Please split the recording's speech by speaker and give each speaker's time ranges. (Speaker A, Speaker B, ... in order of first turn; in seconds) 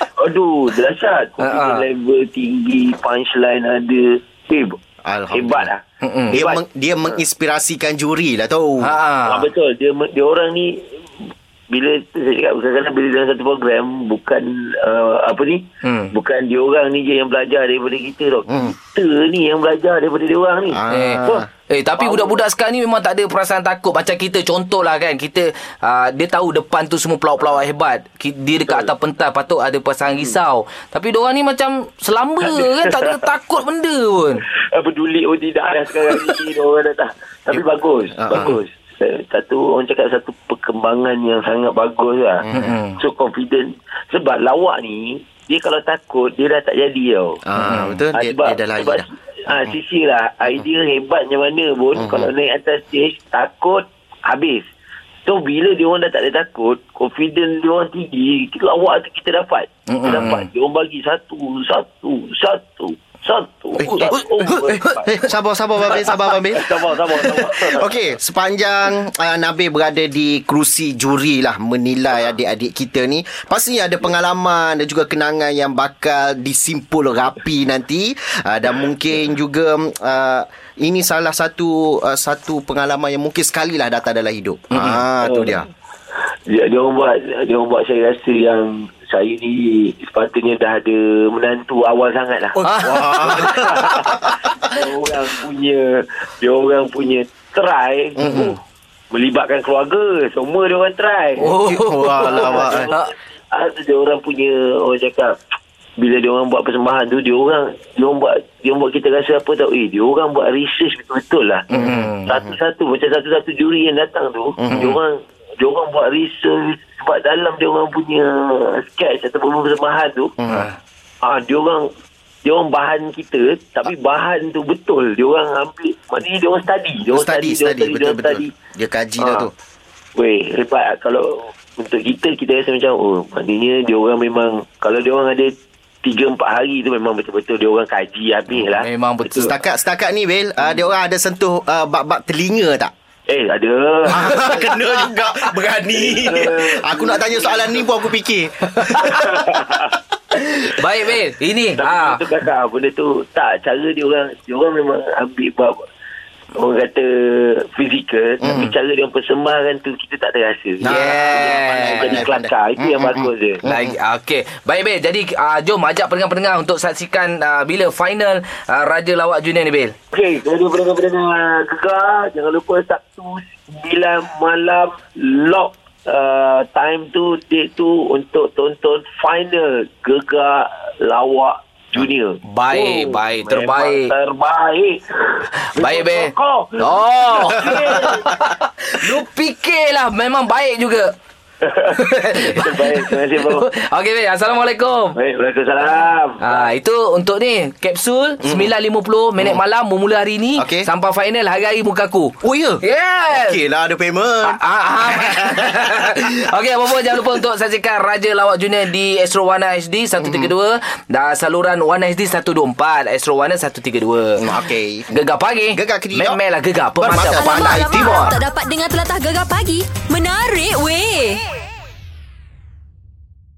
Speaker A: 0.2-4.8, 5.3-5.8, 6.3-6.6, 9.3-21.5, 22.0-22.4, 32.5-33.2, 34.7-47.4, 48.1-54.7, 55.2-65.2, 65.8-67.9, 85.2-85.6, 86.5-98.6, 99.1-105.4, 106.0-111.7, 112.2-120.3, 121.2-121.9, 122.4-128.6, 129.2-129.5, 130.2-139.5, 143.3-145.0, 145.9-147.8, 149.1-149.9, 151.8-155.8, 156.5-163.6, 170.1-188.4, 191.6-193.7, 195.2-196.7
Speaker B: 1.4-1.9, 6.0-6.4, 8.8-9.5, 15.8-16.1, 20.9-34.5, 42.5-43.0, 47.6-48.0, 59.9-60.5, 84.7-85.0, 92.6-94.1, 98.2-98.5, 101.4-103.1, 111.7-112.3, 114.7-115.0, 120.5-120.8, 138.7-139.5, 148.8-149.3, 150.6-152.2, 160.8-162.2, 163.6-169.9, 182.4-184.1, 185.7-191.2, 191.9-195.2, 196.4-203.6, 204.4-214.4, 215.1-217.8
Speaker C: 5.0-5.7, 6.3-8.9, 18.5-18.7, 20.7-21.5, 38.2-38.5, 47.5-49.1, 52.0-52.3, 63.8-85.7, 92.6-94.4, 98.2-98.5, 101.5-102.9, 111.8-112.5, 114.6-115.0, 120.4-120.7, 127.1-129.5, 139.4-142.9, 144.1-149.4, 158.4-158.7, 160.8-163.9, 198.4-198.7, 200.6-200.9, 202.4-206.1, 210.2-210.5, 214.4-215.1, 215.8-216.4, 217.0-218.4
Speaker D: 217.3-221.4